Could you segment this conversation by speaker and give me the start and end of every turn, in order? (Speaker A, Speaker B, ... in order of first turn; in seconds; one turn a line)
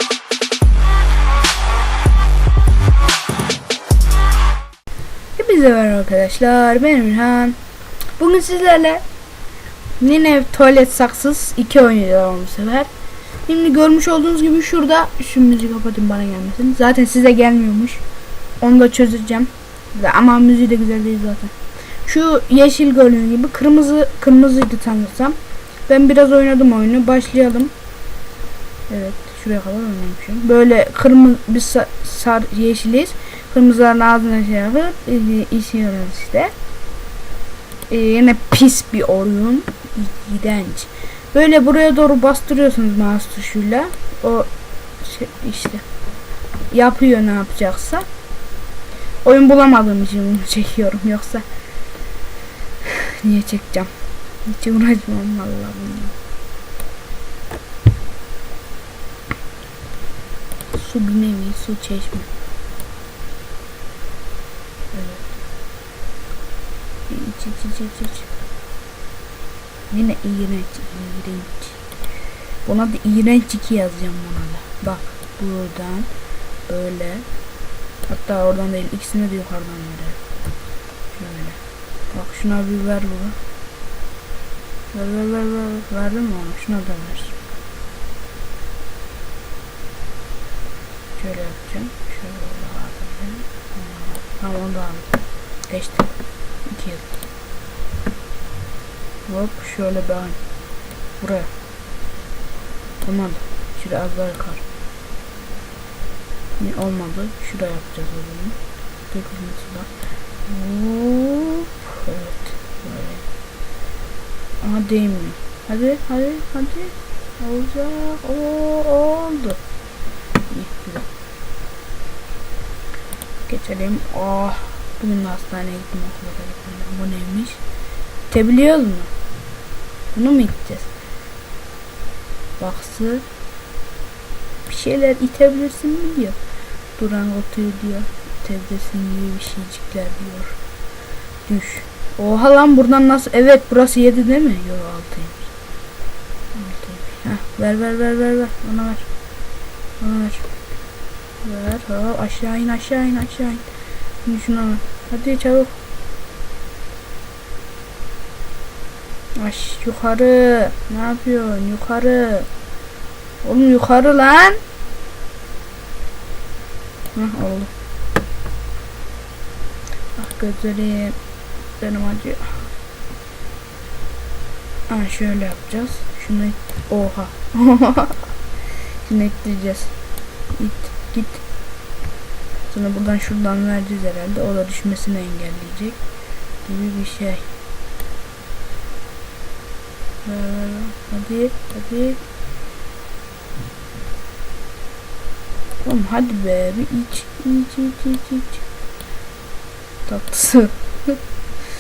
Speaker A: 5.4-7.6
Speaker A: 8.2-9.0
Speaker A: 10.0-12.9
Speaker A: 13.5-18.0
Speaker A: 18.6-21.5
Speaker A: 22.1-25.4
Speaker A: 25.9-27.7
Speaker A: 28.9-36.5
Speaker A: 37.9-44.5
Speaker A: 45.0-45.8
Speaker A: 46.7-48.1
Speaker A: 49.2-51.5
Speaker A: 52.9-53.9
Speaker A: 54.5-56.1
Speaker A: 60.7-62.3
Speaker A: 64.9-65.2
Speaker A: 67.1-68.3
Speaker A: 69.9-71.8
Speaker A: 72.7-76.1
Speaker A: 76.7-77.3
Speaker A: 78.1-80.2
Speaker A: 81.1-81.6
Speaker A: 82.1-83.4
Speaker A: 84.9-87.4
Speaker A: 91.2-95.1
Speaker A: 95.7-96.2
Speaker A: 96.7-97.2
Speaker A: 99.3-100.4
Speaker A: 101.2-101.5
Speaker A: 103.0-104.6
Speaker A: 106.6-108.6
Speaker A: 109.1-109.9
Speaker A: 110.5-113.2
Speaker A: 114.6-119.6
Speaker A: 120.5-121.1
Speaker A: 123.5-127.6
Speaker A: 128.3-129.1
Speaker A: 130.1-130.9
Speaker A: 132.6-133.2
Speaker A: 134.7-136.4
Speaker A: 137.0-140.6
Speaker A: 141.5-145.5
Speaker A: 146.6-149.1
Speaker A: 150.0-150.5
Speaker A: 151.4-153.7
Speaker A: 154.2-155.8
Speaker A: 159.4-162.5
Speaker A: 163.4-164.6
Speaker A: 167.2-167.7
Speaker A: 170.2-171.2
Speaker A: 171.8-172.6
Speaker A: 174.9-178.3
Speaker A: 179.1-179.9
Speaker A: 180.5-181.4
Speaker A: 182.7-186.0
Speaker A: 186.7-187.4
Speaker A: 190.2-192.2
Speaker A: 195.8-198.6
Speaker A: 200.1-201.2